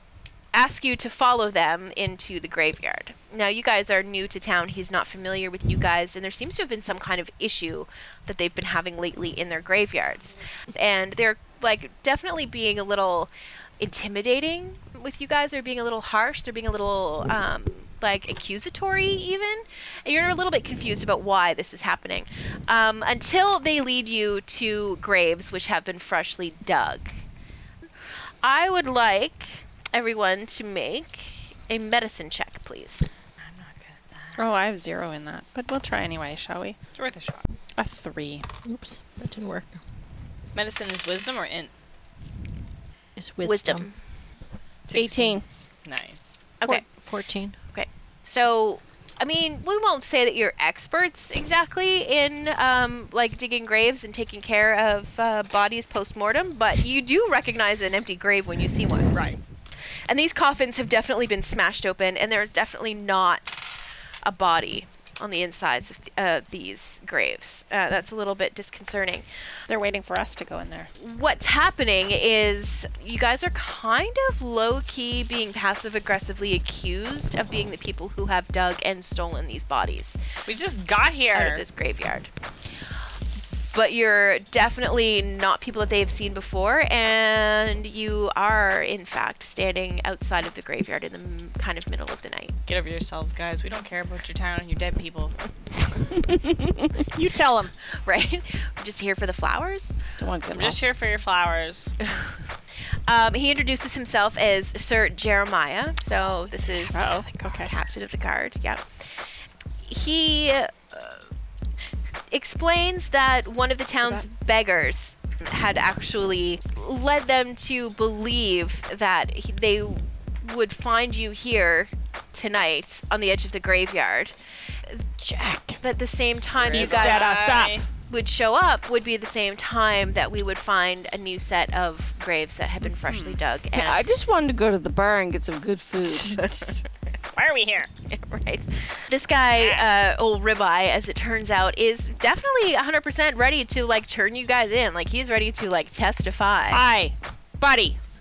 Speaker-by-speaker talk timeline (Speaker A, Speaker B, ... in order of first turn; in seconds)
Speaker A: 0.5-27.2, 28.4-33.0, 43.4-43.9, 47.7-59.2, 60.1-63.7, 64.2-69.3, 71.0-80.2, 81.3-82.3, 83.7-92.5, 98.0-100.0, 102.0-102.4, 103.1-109.1, 109.8-111.3, 112.3-127.4, 128.1-134.0, 138.1-146.8
Speaker B: 33.4-34.5, 37.0-37.4, 40.5-41.7, 44.9-46.4, 59.1-59.4, 80.5-81.7, 92.7-95.3, 100.5-101.9, 126.6-127.8, 137.3-137.9, 139.6-139.9
Speaker C: 34.4-36.8, 37.8-38.5, 69.7-70.9, 97.1-97.7, 106.9-107.7, 126.7-127.9, 132.9-133.4, 146.7-148.0
Speaker D: 38.6-39.8, 43.2-43.9, 46.6-47.6
Speaker E: 44.9-45.4, 100.2-100.9, 125.4-125.8, 133.8-136.4